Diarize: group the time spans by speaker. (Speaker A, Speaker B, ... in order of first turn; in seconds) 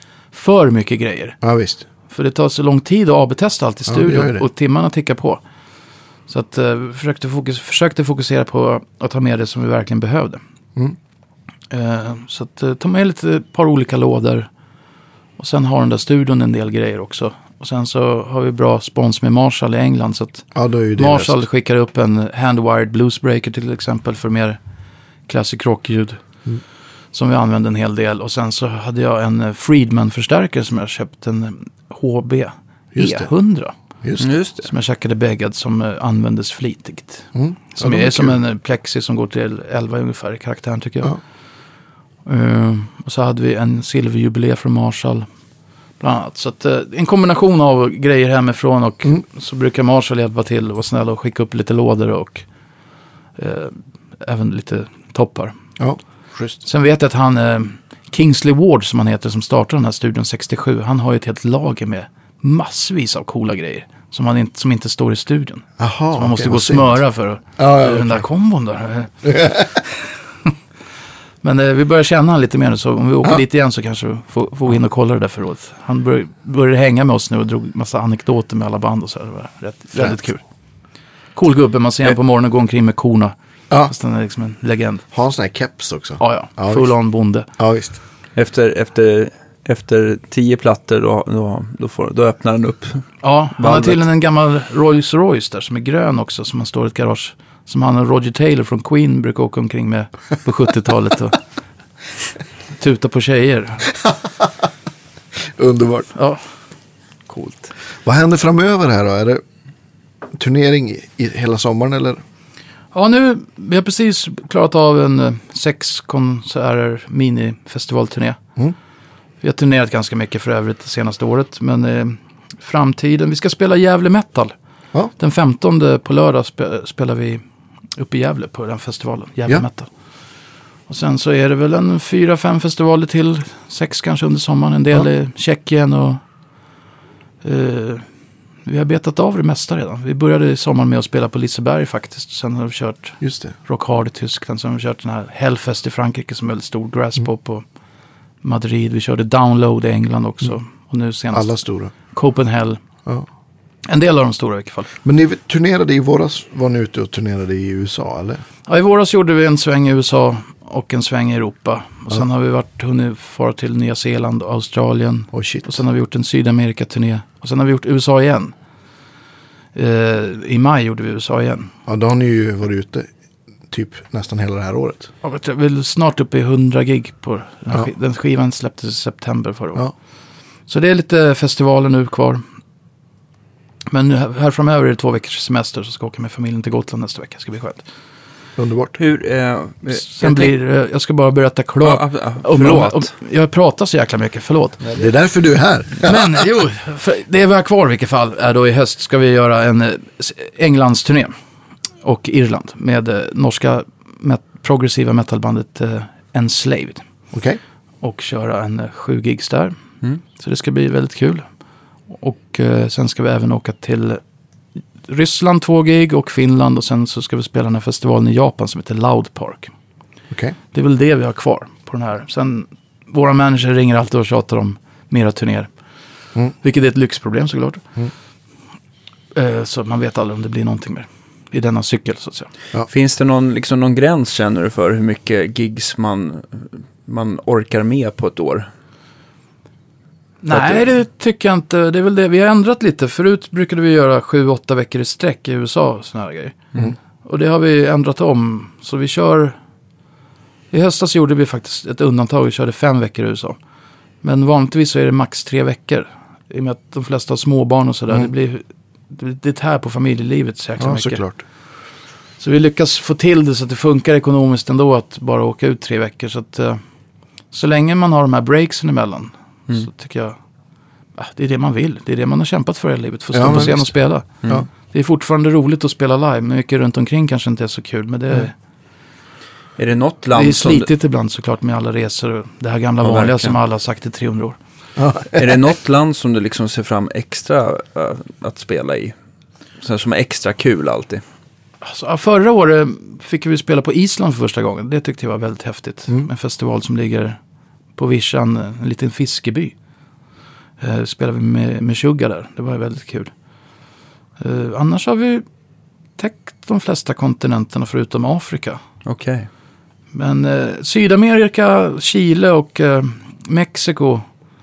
Speaker A: 0.3-1.4, 2.1-5.4, 6.3-10.4, 11.7-14.5, 15.4-24.6, 25.3-26.2, 27.1-33.8, 34.6-41.2, 42.2-45.3, 46.0-52.5, 53.4-55.5, 56.6-70.5, 71.4-80.4, 81.3-83.3, 83.9-85.0, 86.2-87.5, 93.2-101.4, 102.7-103.9, 106.1-106.4, 107.3-107.5, 112.9-118.4, 119.4-124.5, 125.2-127.4, 128.0-129.9, 130.9-136.2, 137.4-138.1, 138.6-147.6, 148.4-152.8, 153.9-154.9, 158.7-168.5, 169.7-171.7, 175.2-179.8, 180.7-182.4, 183.9-187.8, 189.9-194.8, 196.0-201.3, 202.0-207.0, 208.0-209.8, 210.3-211.4, 212.1-214.2, 215.1-219.7, 220.7-225.7, 226.6-227.8, 229.3-232.5, 240.4-246.7, 247.2-249.6, 250.7-253.6, 254.2-261.2, 262.4-266.8, 267.5-270.4, 271.1-278.5, 280.3-284.6, 291.8-297.4, 297.9-299.7, 300.8-303.3, 304.4-305.4, 306.2-308.8, 310.1-314.2
Speaker B: 1.4-1.9, 3.9-4.4, 20.5-21.4, 32.9-33.3, 34.0-34.3, 37.3-38.4, 55.8-56.5, 65.8-67.0, 67.6-68.2, 69.2-69.7, 85.1-86.9, 87.6-88.0, 104.0-104.5, 105.4-106.1, 108.0-109.4, 110.3-112.2, 143.2-143.5, 151.3-151.9, 155.0-158.4, 165.3-165.7, 171.8-173.1, 173.7-175.1, 188.6-189.0, 195.0-196.3, 207.3-207.6, 240.5-240.8, 260.8-261.4, 273.3-274.7, 285.0-285.6
Speaker C: 34.2-34.7, 88.3-94.0, 189.0-190.5, 191.8-193.1, 232.9-238.7, 279.8-280.9, 283.0-283.5, 285.3-289.1, 289.8-291.2, 309.0-309.5